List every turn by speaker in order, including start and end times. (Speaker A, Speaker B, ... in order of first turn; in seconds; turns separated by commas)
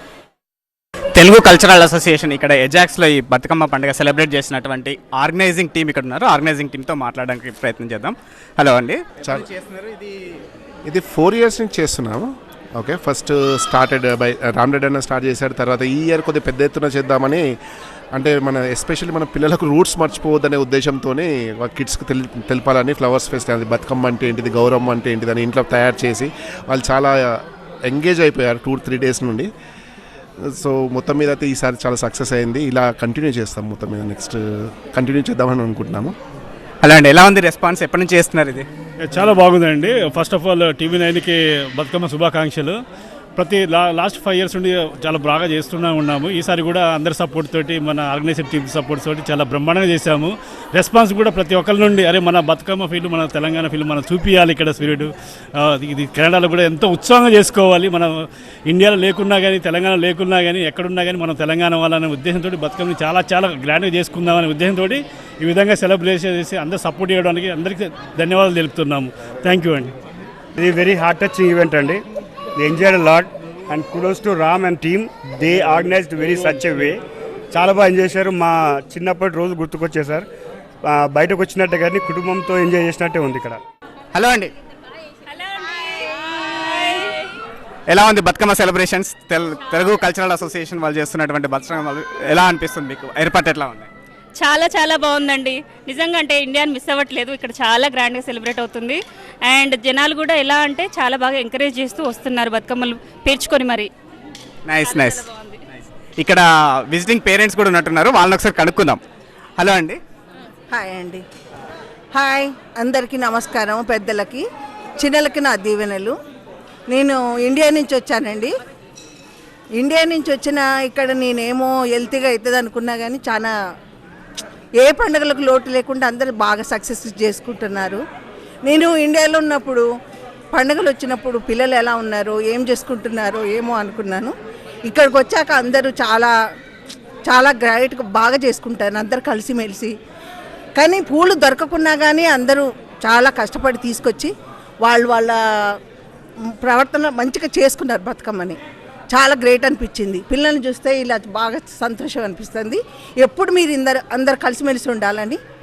Speaker A: 1.2-10.1, Speaker B: 10.9-17.5, Speaker B: 18.1-29.5, Speaker B: 30.4-36.1, Speaker A: 36.8-38.7, Speaker C: 39.0-42.8, Speaker C: 43.4-69.9, Speaker D: 70.6-72.0, Speaker D: 72.6-77.0, Speaker D: 77.5-80.3, Speaker D: 80.8-83.6, Speaker A: 84.1-84.5, Speaker E: 85.4-87.3, Speaker A: 87.9-93.9, Speaker E: 94.4-103.9, Speaker A: 104.7-105.2, Speaker E: 104.8-105.6, Speaker A: 106.2-109.0, Speaker A: 109.6-110.0, Speaker F: 110.7-111.2, Speaker F: 112.1-114.4, Speaker F: 115.0-116.2, Speaker F: 116.9-118.5, Speaker F: 119.8-123.5, Speaker F: 124.8-128.0, Speaker F: 128.7-129.9, Speaker F: 130.5-134.3, Speaker F: 134.9-136.3, Speaker F: 137.3-139.9, Speaker F: 140.8-145.8, Speaker F: 146.6-148.6, Speaker F: 149.1-155.4